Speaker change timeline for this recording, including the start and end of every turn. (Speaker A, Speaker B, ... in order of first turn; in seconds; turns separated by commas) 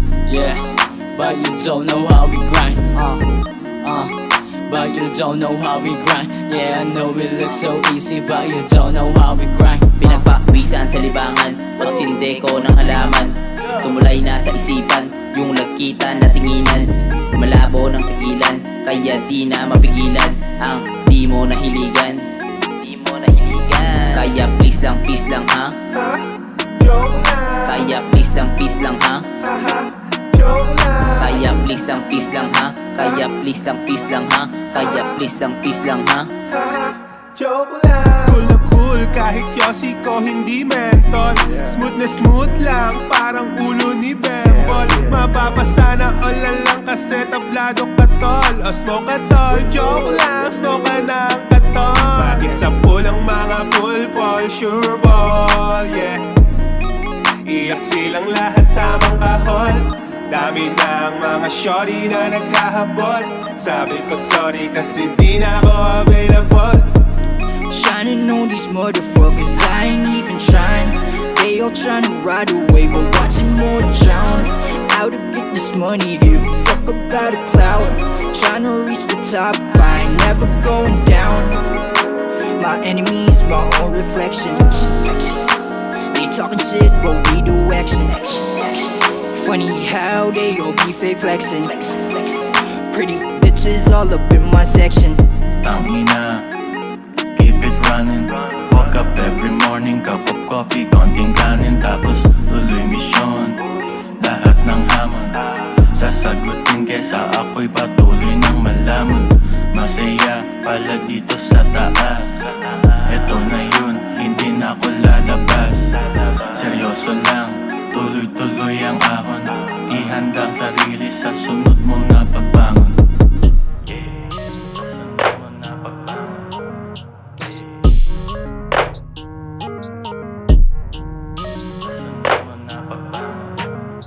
Speaker A: 0.2-3.3, Speaker A: 3.8-10.2, Speaker B: 10.0-22.2, Speaker B: 22.8-25.8, Speaker C: 25.9-27.8, Speaker B: 27.6-29.3, Speaker C: 29.4-31.4, Speaker B: 31.2-36.3, Speaker C: 34.8-35.1, Speaker C: 36.5-56.2, Speaker C: 57.5-66.9, Speaker D: 67.7-81.6, Speaker D: 82.6-85.5, Speaker D: 86.1-95.2, Speaker E: 95.6-96.5, Speaker E: 97.3-103.6, Speaker E: 104.2-105.4, Speaker E: 105.9-123.0, Speaker E: 123.9-126.5, Speaker E: 127.4-127.7, Speaker E: 131.8-133.7